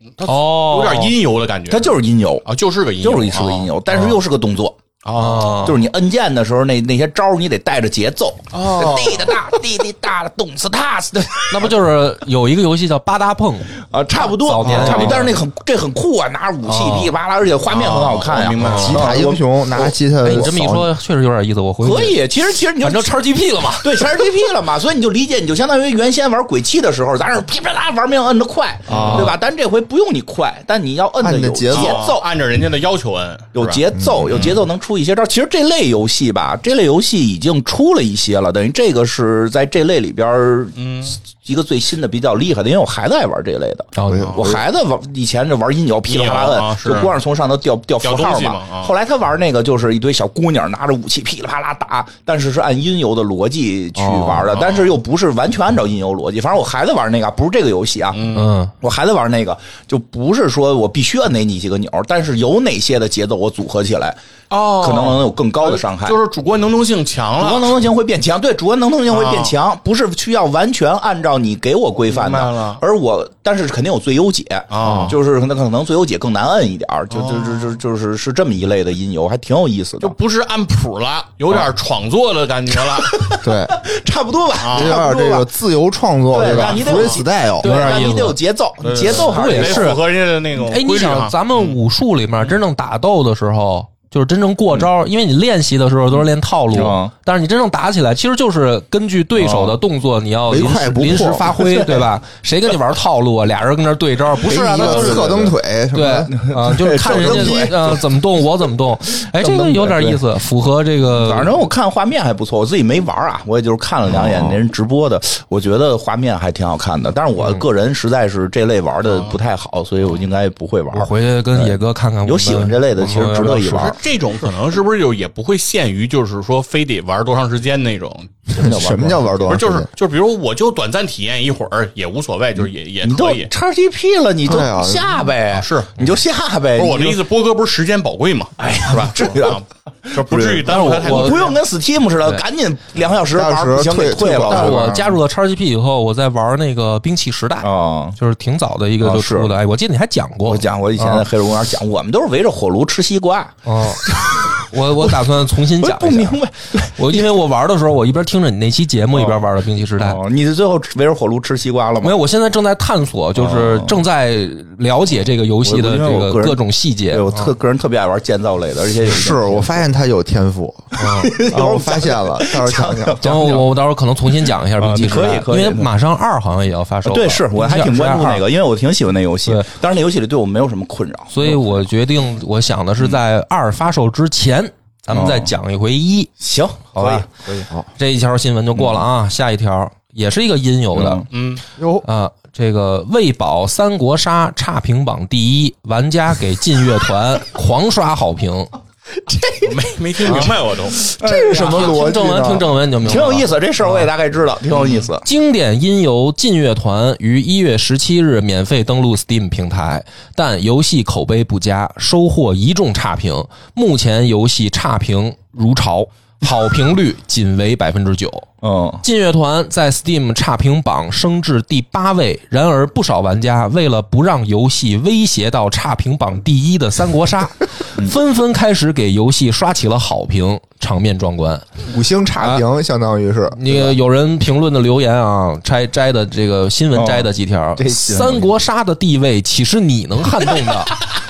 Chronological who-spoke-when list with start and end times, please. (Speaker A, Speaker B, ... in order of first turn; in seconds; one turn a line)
Speaker A: 0.2-4.0
Speaker B: 0.2-1.1
Speaker C: 1.7-2.4
Speaker C: 3.0-4.8
Speaker A: 5.0-5.7
Speaker B: 5.2-5.8
Speaker C: 5.3-11.8
Speaker A: 8.5-9.4
Speaker B: 11.5-15.4
Speaker C: 13.8-20.5
Speaker B: 16.6-17.1
Speaker A: 17.7-19.2
Speaker B: 18.6-18.9
Speaker D: 18.7-20.9
Speaker B: 20.2-22.2
Speaker C: 21.8-23.2
Speaker B: 22.8-24.3
Speaker C: 23.8-32.2
Speaker D: 28.9-29.4
Speaker B: 28.9-29.4
Speaker D: 31.2-32.1
Speaker A: 31.7-34.6
Speaker C: 33.5-40.8
Speaker D: 34.0-34.3
Speaker A: 40.8-41.2
Speaker C: 41.4-58.2
Speaker B: 44.0-44.4
Speaker D: 44.1-44.4
Speaker A: 44.2-44.6
Speaker A: 46.1-47.1
Speaker A: 48.0-48.9
Speaker D: 54.0-54.5
Speaker A: 54.5-54.9
Speaker A: 58.1-58.5
Speaker B: 58.3-58.7
Speaker C: 58.8-64.2
Speaker A: 64.5-67.8
Speaker C: 64.7-66.2
Speaker C: 67.4-80.2
Speaker A: 69.1-69.6
Speaker A: 72.1-72.8
Speaker A: 74.7-75.2
Speaker D: 74.8-75.2
Speaker A: 77.1-77.8
Speaker A: 80.0-83.3
Speaker C: 82.9-85.5
Speaker D: 83.4-83.8
Speaker A: 84.6-85.0
Speaker D: 84.7-88.0
Speaker C: 86.3-89.9
Speaker A: 86.4-87.2
Speaker B: 87.6-88.4
Speaker A: 88.8-91.8
Speaker B: 89.1-90.0
Speaker B: 90.6-111.5
Speaker C: 96.7-97.1
Speaker C: 99.4-99.8
Speaker D: 100.5-101.6
Speaker C: 101.5-102.1
Speaker D: 104.5-106.4
Speaker C: 104.7-105.5
Speaker C: 106.3-108.1
Speaker D: 107.0-107.7
Speaker C: 109.4-110.2
Speaker C: 111.1-124.0
Speaker D: 114.1-114.6
Speaker B: 117.4-117.6
Speaker A: 119.1-119.4
Speaker B: 120.9-124.0
Speaker A: 123.3-128.7
Speaker D: 128.5-129.9
Speaker C: 128.5-129.6
Speaker A: 129.4-133.5
Speaker C: 133.0-137.2
Speaker D: 134.4-135.2
Speaker A: 135.5-136.1
Speaker A: 136.7-141.6
Speaker C: 138.6-145.0
Speaker B: 140.7-141.5
Speaker D: 143.3-145.2
Speaker B: 144.5-151.3
Speaker C: 147.6-148.2
Speaker C: 149.0-149.6
Speaker C: 150.5-155.2
Speaker B: 153.7-160.2
Speaker C: 155.8-157.4
Speaker C: 159.1-159.4
Speaker C: 160.0-162.1
Speaker B: 162.0-167.5
Speaker C: 163.4-164.0
Speaker C: 165.6-169.8
Speaker D: 169.0-173.6
Speaker B: 171.0-171.4
Speaker C: 171.0-173.7
Speaker B: 173.2-178.4
Speaker C: 174.8-175.9
Speaker C: 177.1-181.6
Speaker B: 179.5-179.7
Speaker B: 181.3-186.3
Speaker C: 185.1-185.5
Speaker C: 186.4-187.7
Speaker B: 186.9-187.3
Speaker B: 188.0-191.3
Speaker C: 188.8-189.0
Speaker C: 190.9-191.3
Speaker A: 191.3-191.6
Speaker D: 191.8-192.1
Speaker B: 192.0-198.7
Speaker A: 199.6-201.1
Speaker B: 200.3-200.5
Speaker C: 201.1-202.0
Speaker D: 201.2-202.7
Speaker B: 201.3-204.1
Speaker C: 203.0-205.3
Speaker A: 204.8-205.1
Speaker B: 205.2-218.5
Speaker C: 218.6-219.0
Speaker B: 219.0-231.7
Speaker D: 231.8-233.9
Speaker B: 233.6-241.1
Speaker C: 236.9-238.5